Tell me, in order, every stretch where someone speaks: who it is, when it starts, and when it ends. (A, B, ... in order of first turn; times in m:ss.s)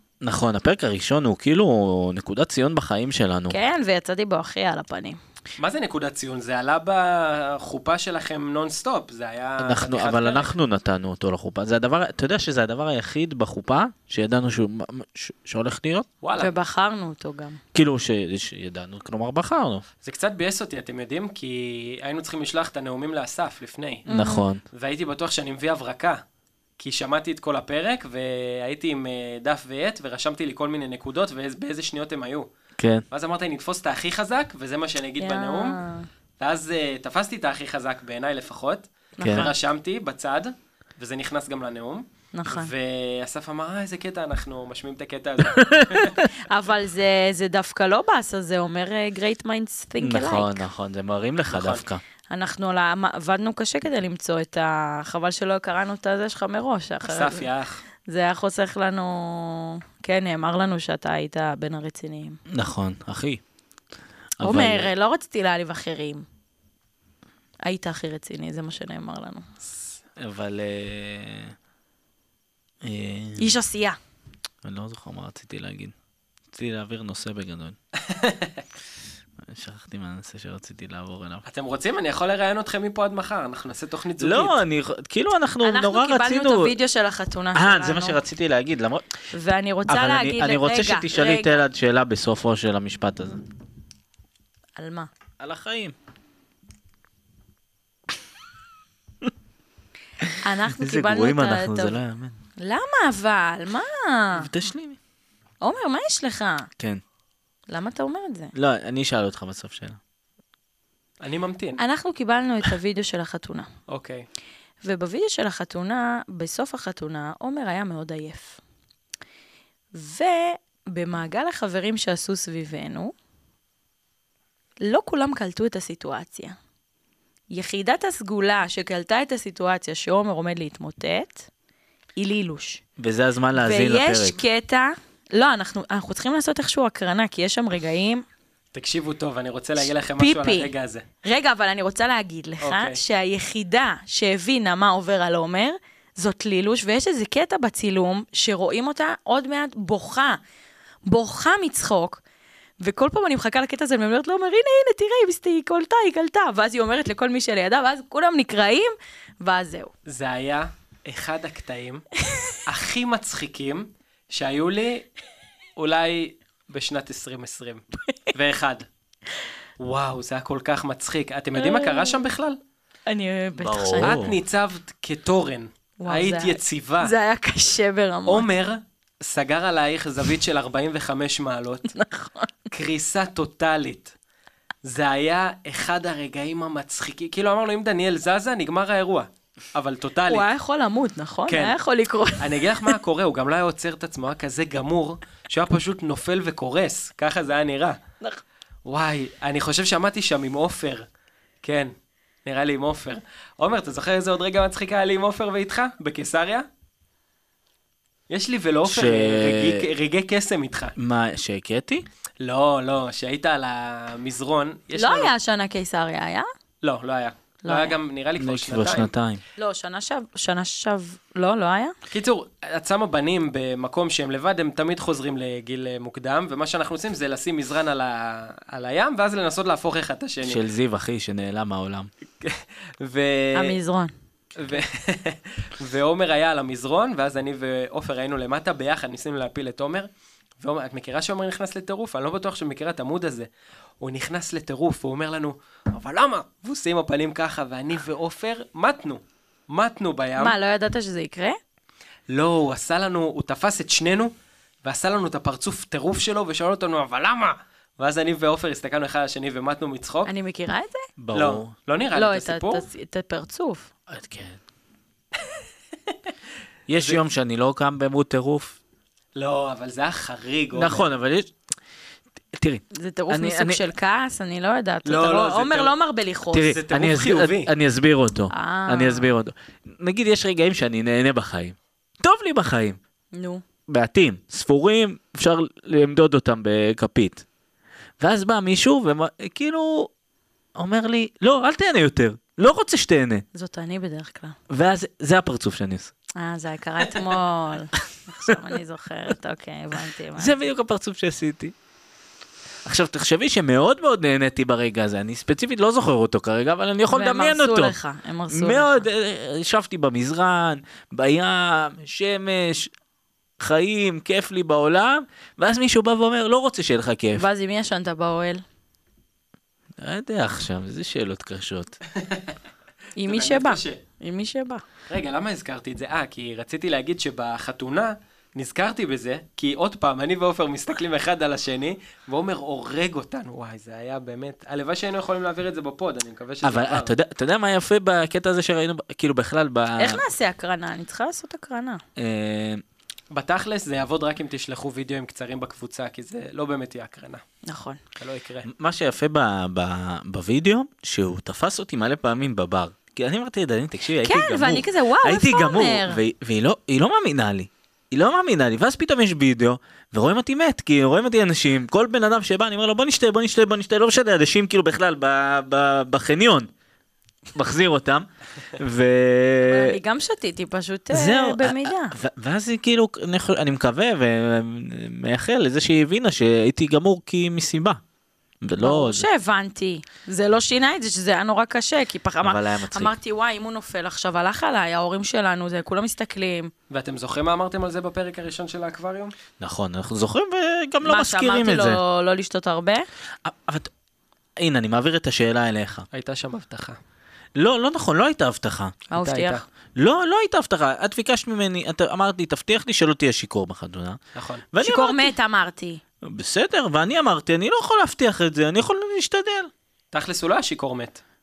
0:00.2-0:03.6 A
0:03.5-0:05.2 B
0:05.6-0:10.5 C
0:09.6-0:16.1 A
0:16.2-0:16.5 C
0:16.4-0:17.6 B
0:17.7-0:19.8 A
0:20.0-0:24.1 C
0:24.1-0:24.5 B
0:24.1-0:24.6 A
0:24.7-0:26.2 C
0:26.8-0:32.5 C
0:32.8-0:33.0 A
0:33.1-0:35.8 C
0:35.2-0:36.1 B
0:36.4-0:46.2 C
0:39.2-0:39.5 B
0:39.2-0:39.5 A
0:42.3-0:42.7 B
0:45.5-0:46.3 A
0:46.3-0:50.6 B
0:50.0-0:52.0 A
0:51.5-0:51.8 C
0:52.3-0:57.5 B
0:57.0-0:57.8 C
0:58.1-1:02.4 B
1:02.5-1:03.4 A
1:04.4-1:04.9 A
1:04.4-1:06.2 B
1:07.6-1:09.5 B
1:10.2-1:11.6 A
1:12.8-1:13.6 A
1:13.4-1:14.0 B
1:14.6-1:15.9 A
1:16.5-1:17.8 A
1:18.0-1:18.6 C
1:19.4-1:21.4 A
1:21.5-1:24.6 C
1:24.2-1:26.7 A
1:25.6-1:28.2 B
1:27.6-1:29.1 A
1:29.3-1:31.6 B
1:29.9-1:33.4 A
1:34.8-1:35.1 B
1:35.4-1:36.0 A
1:40.2-1:42.4 A
1:40.4-1:42.0 B
1:42.6-1:44.5 B
1:44.4-1:45.0 A
1:45.6-1:46.7 B
1:47.7-1:48.5 B
1:48.6-1:50.0 A
1:51.2-1:51.8 C
1:51.8-1:53.7 B
1:53.9-1:54.3 C
1:54.8-1:58.6 B
2:00.0-2:03.1 B
2:04.8-2:06.6 B
2:07.5-2:11.5 B
2:12.2-2:12.8 B
2:13.0-2:14.4 A
2:13.5-2:18.2 B
2:18.7-2:21.1 C
2:20.2-2:20.7 B
2:21.2-2:30.4 B
2:22.6-2:23.0 C
2:31.1-2:32.2 B
2:32.8-2:39.9 B
2:40.1-2:42.0 C
2:42.2-2:42.6 B
2:42.7-2:45.1 C
2:45.8-2:47.8 C
2:48.3-2:48.8 C
2:49.8-2:52.6 C
2:51.6-2:52.2 B
2:53.1-2:54.2 B
2:53.6-2:54.4 A
2:54.0-2:57.1 C
2:56.0-2:58.5 B
2:58.3-3:02.0 C
3:01.9-3:02.5 B
3:02.7-3:04.1 C
3:04.8-3:10.5 C
3:10.3-3:12.9 B
3:11.5-3:11.8 C
3:12.4-3:18.0 C
3:18.8-3:21.1 C
3:21.6-3:21.9 C
3:22.4-3:26.7 C
3:28.3-3:31.0 C
3:28.8-3:29.9 A
3:31.0-3:32.0 A
3:32.4-3:35.3 C
3:35.0-3:36.5 B
3:36.8-3:39.1 C
3:37.6-3:38.0 B
3:38.4-3:39.4 A
3:39.6-3:41.9 B
3:42.1-3:50.6 C
3:50.4-3:52.1 A
3:52.4-3:53.8 C
3:53.5-3:54.1 B
3:54.6-4:00.1 C
4:00.6-4:03.5 C
4:04.0-4:10.6 C
4:10.4-4:11.6 B
4:12.3-4:14.3 C
4:14.8-4:20.3 C
4:20.3-4:21.1 B
4:21.2-4:21.7 A
4:21.3-4:22.8 C
4:22.2-4:23.9 B
4:24.1-4:24.6 A
4:26.9-4:28.8 A
4:29.4-4:31.1 C
4:30.7-4:31.5 A
4:32.6-4:33.8 A
4:32.9-4:36.7 B
4:35.1-4:35.9 C
4:36.5-4:43.0 A
4:36.6-4:37.7 C
4:38.5-4:39.3 B
4:43.3-4:43.6 B
4:43.9-4:47.4 A
4:48.2-4:50.1 A
4:50.8-4:53.4 A
4:53.5-4:54.6 B
4:54.7-4:56.1 A
4:56.4-5:00.6 B
4:58.5-4:58.8 A
5:00.4-5:01.7 A
5:02.8-5:08.0 A
5:07.1-5:09.1 B
5:08.5-5:12.9 A
5:13.6-5:17.5 A
5:17.4-5:18.6 B
5:20.0-5:22.0 A
5:22.1-5:22.6 C
5:23.2-5:24.8 B
5:23.2-5:24.0 C
5:25.1-5:37.1 C
5:36.6-5:40.2 A
5:40.0-5:42.0 B
5:42.2-5:42.8 A
5:43.3-5:47.4 C
5:47.7-5:48.0 B
5:48.2-5:48.7 C
5:48.6-6:06.7 A
5:54.2-5:56.2 B
6:07.5-6:10.0 A
6:09.7-6:12.2 B
6:11.1-6:18.0 A
6:18.6-6:19.3 A
6:18.8-6:26.7 B
6:22.4-6:23.2 A
6:26.9-6:29.3 C
6:29.6-6:32.0 A
6:31.0-6:33.1 B
6:33.4-6:33.9 A
6:34.6-6:36.1 A
6:36.1-6:37.0 C
6:37.6-6:39.0 A
6:39.1-6:39.6 B
6:39.2-6:39.6 C
6:40.0-6:44.2 A
6:44.4-6:44.7 C
6:44.7-6:45.3 A
6:44.8-6:46.0 B
6:46.2-6:49.7 A
6:50.1-6:51.2 C